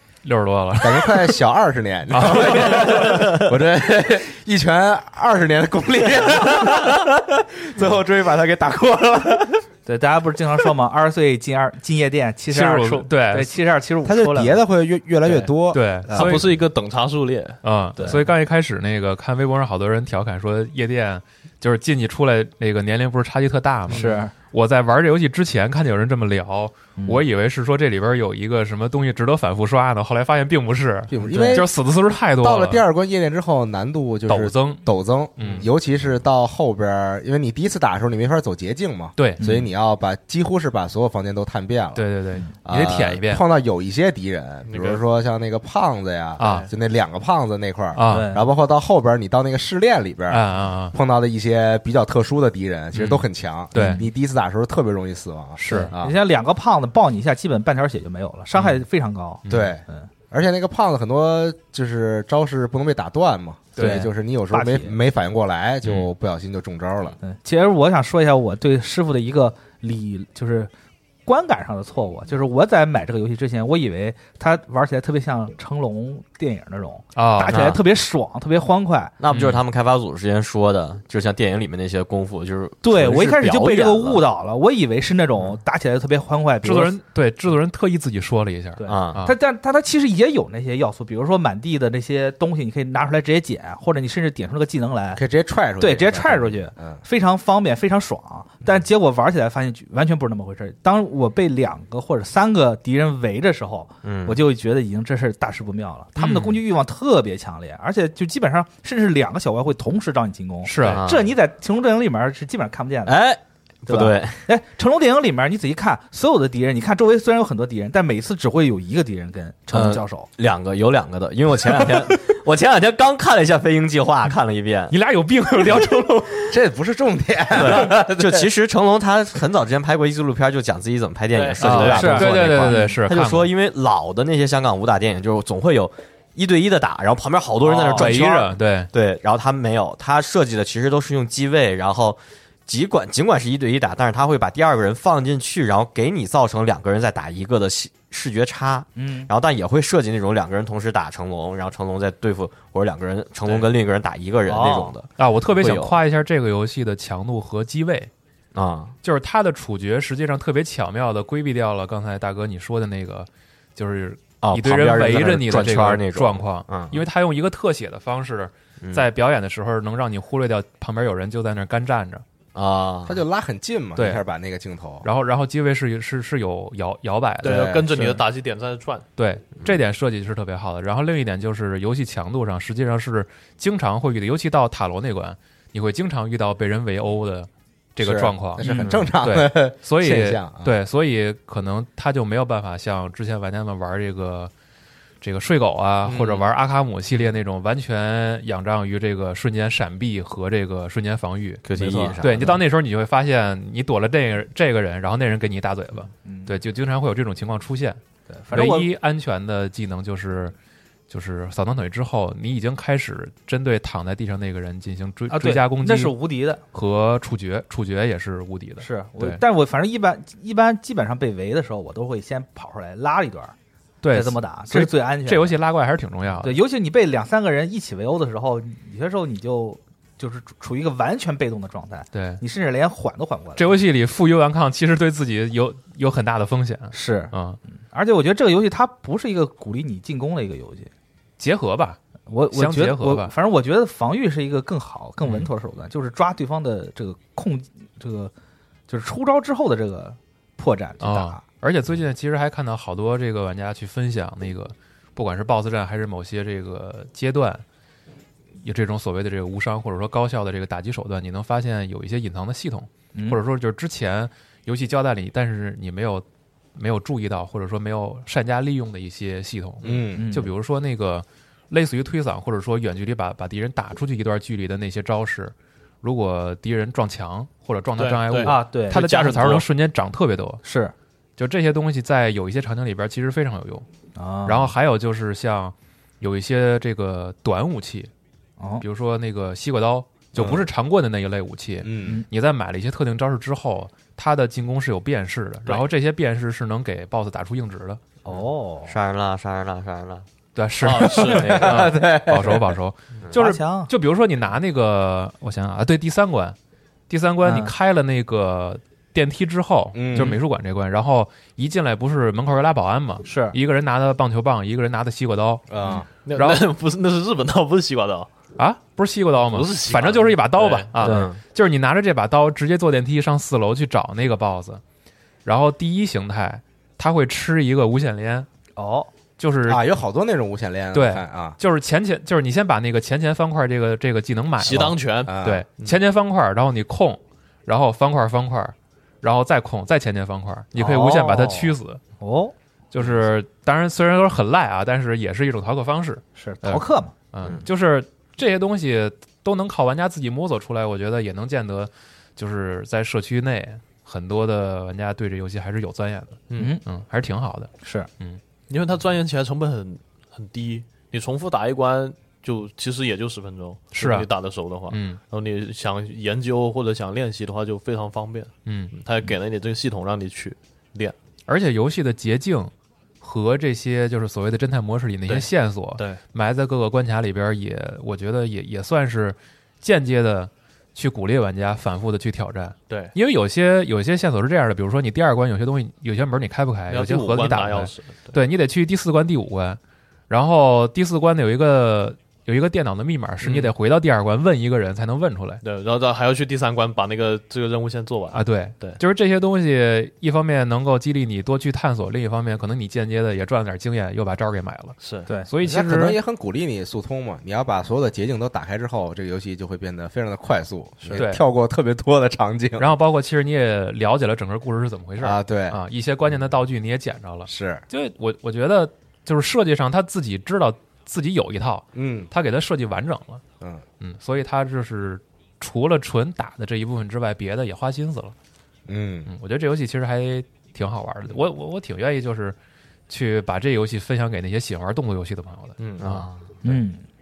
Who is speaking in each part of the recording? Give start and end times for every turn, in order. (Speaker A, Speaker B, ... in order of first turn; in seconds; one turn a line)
Speaker A: 0.2-1.3
Speaker B: 0.8-9.6
Speaker A: 2.1-3.1
Speaker C: 9.9-14.6
Speaker A: 12.5-13.6
Speaker B: 14.0-16.5
Speaker D: 15.2-15.5
Speaker A: 15.7-16.5
Speaker D: 16.1-17.6
Speaker A: 17.6-32.8
Speaker C: 18.0-18.3
Speaker D: 23.9-24.1
Speaker C: 23.9-24.3
Speaker C: 27.0-27.2
Speaker B: 31.1-31.7
Speaker C: 31.2-31.6
Speaker B: 32.4-42.0
Speaker A: 34.3-34.8
Speaker A: 35.4-35.7
Speaker C: 39.4-39.7
Speaker A: 41.9-43.4
Speaker B: 42.6-56.2
Speaker D: 44.7-45.0
Speaker D: 46.4-46.7
Speaker A: 46.4-46.7
Speaker A: 47.9-48.3
Speaker C: 48.1-48.4
Speaker A: 50.3-50.9
Speaker A: 52.9-54.0
Speaker C: 53.7-54.0
Speaker A: 55.6-55.9
Speaker C: 55.7-60.1
Speaker A: 59.4-59.7
Speaker B: 59.5-67.2
Speaker A: 63.8-64.0
Speaker C: 63.8-65.0
Speaker C: 67.2-70.7
Speaker C: 71.2-79.2
Speaker A: 77.1-77.7
Speaker E: 77.5-77.8
Speaker E: 79.2-84.2
Speaker A: 79.3-79.6
Speaker C: 82.8-86.9
Speaker A: 86.6-89.4
Speaker C: 88.8-95.2
Speaker E: 88.9-89.2
Speaker B: 95.1-97.0
Speaker C: 95.8-113.2
Speaker E: 104.0-104.4
Speaker A: 106.2-106.6
Speaker A: 110.6-111.0
Speaker E: 110.8-111.3
Speaker E: 113.0-114.5
Speaker C: 113.9-120.3
Speaker E: 119.7-124.9
Speaker A: 124.9-126.5
Speaker B: 126.5-128.5
Speaker E: 127.5-156.0
Speaker D: 131.3-132.1
Speaker A: 131.6-133.5
Speaker C: 131.7-133.0
Speaker C: 137.6-138.1
Speaker A: 137.9-138.9
Speaker C: 148.9-149.3
Speaker C: 154.4-154.9
Speaker A: 155.2-158.1
Speaker E: 158.5-158.9
Speaker A: 159.0-172.2
Speaker E: 164.4-167.0
Speaker E: 168.8-169.1
Speaker E: 172.5-173.2
Speaker B: 173.1-175.1
Speaker A: 173.9-174.2
Speaker A: 175.0-177.8
Speaker D: 177.4-179.1
Speaker B: 177.4-178.1
Speaker A: 179.2-188.7
Speaker B: 188.0-190.8
Speaker C: 188.6-189.0
Speaker A: 189.2-194.5
Speaker A: 195.2-208.0
Speaker E: 201.6-202.6
Speaker C: 206.2-206.6
Speaker C: 208.3-208.9
Speaker A: 208.5-210.5
Speaker A: 211.1-216.1
Speaker C: 215.3-216.6
Speaker A: 216.7-219.4
Speaker C: 218.8-223.5
Speaker A: 224.0-226.6
Speaker C: 224.1-225.6
Speaker C: 226.4-233.8
Speaker A: 232.1-232.4
Speaker A: 233.6-237.6
Speaker C: 236.9-237.3
Speaker C: 237.9-240.9
Speaker A: 241.4-242.0
Speaker C: 242.3-248.3
Speaker A: 242.5-243.3
Speaker A: 245.2-245.5
Speaker C: 248.9-251.4
Speaker A: 251.0-257.6
Speaker A: 258.6-280.6
Speaker C: 263.1-263.4
Speaker B: 269.8-270.4
Speaker C: 270.1-270.5
Speaker D: 278.0-279.6
Speaker C: 278.4-279.0
Speaker C: 280.6-280.9
Speaker A: 281.4-283.9
Speaker C: 284.1-284.7
Speaker A: 284.4-288.1
Speaker C: 288.6-288.8
Speaker A: 288.8-298.0
Speaker B: 290.3-290.7
Speaker B: 291.8-292.2
Speaker C: 298.2-299.0
Speaker E: 298.9-300.3
Speaker A: 300.5-306.6
Speaker D: 300.8-301.7
Speaker B: 301.1-302.8
Speaker E: 301.4-301.7
Speaker C: 303.3-303.9
Speaker A: 307.1-315.6
Speaker C: 307.4-307.7
Speaker B: 309.9-310.4
Speaker C: 313.2-313.6
Speaker B: 315.7-316.1
Speaker D: 316.2-318.3
Speaker A: 316.3-316.6
Speaker A: 318.6-324.8
Speaker D: 319.4-321.0
Speaker C: 321.0-321.3
Speaker E: 321.1-321.4
Speaker A: 325.4-328.5
Speaker C: 328.8-329.1
Speaker A: 329.4-329.8
Speaker B: 329.6-331.6
Speaker A: 330.9-342.0
Speaker D: 334.6-336.0
Speaker B: 335.2-335.6
Speaker C: 340.7-342.5
Speaker A: 342.9-358.4
Speaker C: 346.4-347.1
Speaker D: 356.5-356.8
Speaker C: 356.6-356.8
Speaker C: 357.8-358.1
Speaker D: 358.7-371.1
Speaker A: 363.9-364.3
Speaker A: 364.9-365.2
Speaker A: 368.6-368.9
Speaker A: 371.5-395.6
Speaker D: 375.3-376.2
Speaker D: 382.9-383.1
Speaker D: 386.9-388.4
Speaker D: 393.4-393.7
Speaker D: 395.6-399.0
Speaker A: 398.3-406.2
Speaker D: 405.0-405.3
Speaker B: 405.6-412.9
Speaker A: 411.1-411.4
Speaker A: 412.8-423.4
Speaker B: 415.2-415.8
Speaker B: 417.5-417.8
Speaker B: 421.9-422.3
Speaker A: 424.0-428.3
Speaker B: 428.9-429.3
Speaker A: 429.3-432.6
Speaker A: 433.1-436.3
Speaker D: 435.8-436.0
Speaker E: 436.0-436.5
Speaker C: 436.6-437.0